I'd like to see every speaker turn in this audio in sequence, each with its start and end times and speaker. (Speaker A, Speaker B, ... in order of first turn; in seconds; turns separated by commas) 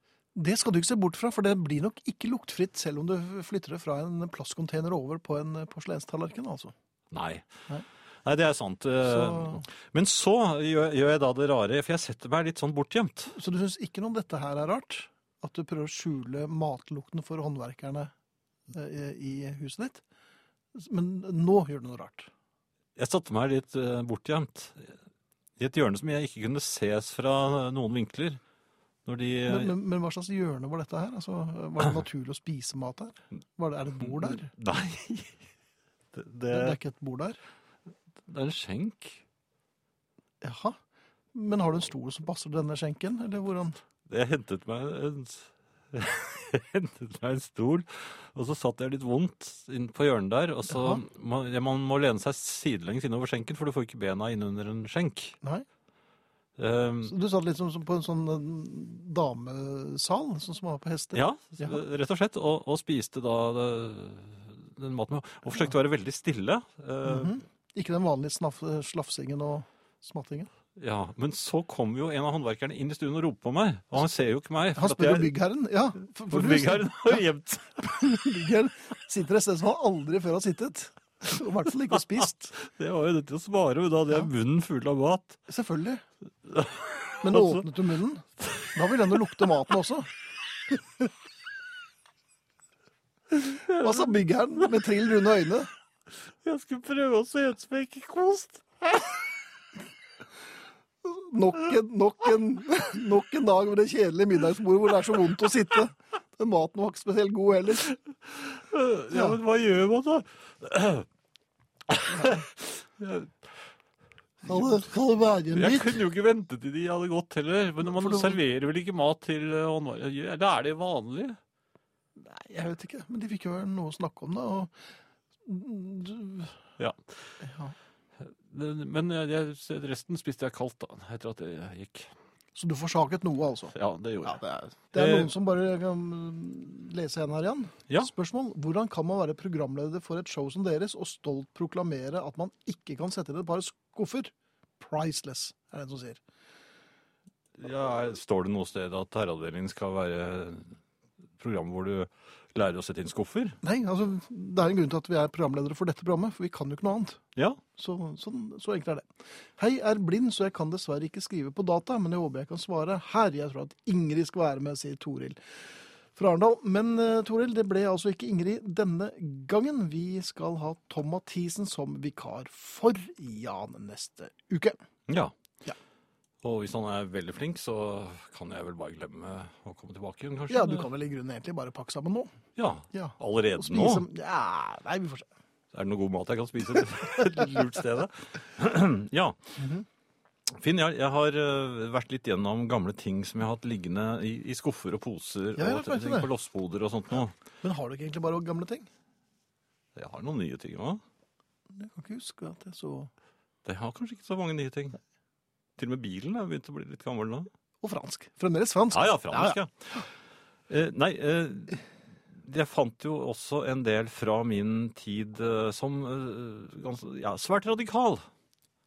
Speaker A: 0.3-6.7, Speaker B: 7.1-7.5, Speaker B: 8.2-13.3, Speaker A: 9.1-9.6, Speaker A: 13.3-18.1, Speaker A: 18.7-20.0, Speaker A: 20.7-22.3, Speaker B: 23.0-25.0, Speaker B: 25.6-28.4, Speaker B: 29.0-29.7, Speaker A: 29.5-34.5, Speaker B: 34.0-35.4, Speaker B: 36.1-36.8, Speaker A: 36.5-37.4, Speaker B: 38.2-39.2, Speaker A: 40.4-40.8, Speaker A: 41.3-43.8, Speaker B: 44.1-55.4, Speaker A: 50.7-51.0, Speaker B: 56.6-57.1, Speaker A: 57.0-61.8, Speaker B: 61.1-67.4, Speaker A: 67.0-70.5, Speaker B: 70.8-75.3, Speaker A: 74.7-77.2, Speaker B: 76.3-77.9, Speaker A: 77.8-82.6, Speaker B: 82.5-85.4, Speaker A: 85.5-86.0, Speaker B: 86.5-87.7, Speaker A: 87.2-90.1, Speaker B: 88.4-88.7, Speaker B: 93.4-94.1, Speaker A: 93.4-95.7, Speaker B: 96.4-99.3, Speaker A: 101.0-107.9, Speaker B: 107.8-111.1, Speaker B: 111.9-113.5, Speaker A: 114.4-116.0, Speaker B: 114.4-114.8, Speaker B: 115.5-121.4, Speaker A: 117.8-118.4, Speaker A: 122.2-124.7, Speaker A: 125.4-126.6, Speaker B: 126.8-127.3, Speaker A: 127.4-127.7, Speaker B: 128.2-132.1, Speaker A: 132.5-146.2, Speaker B: 133.7-135.3, Speaker B: 147.6-150.7, Speaker B: 151.4-153.6, Speaker A: 153.6-157.2, Speaker B: 157.3-157.6, Speaker A: 157.8-165.4, Speaker A: 166.1-174.8, Speaker B: 175.1-175.3, Speaker B: 176.4-180.9, Speaker A: 180.5-182.3, Speaker B: 182.6-184.0, Speaker A: 182.9-185.3, Speaker B: 185.7-189.4, Speaker A: 187.2-187.5, Speaker A: 189.6-189.8, Speaker B: 190.5-197.3, Speaker A: 195.6-196.3, Speaker A: 197.6-198.9, Speaker B: 199.9-201.0, Speaker A: 201.7-203.1, Speaker B: 203.6-205.0, Speaker B: 205.8-207.5, Speaker A: 207.8-209.6, Speaker B: 208.9-210.0, Speaker B: 210.7-211.8, Speaker B: 212.3-218.2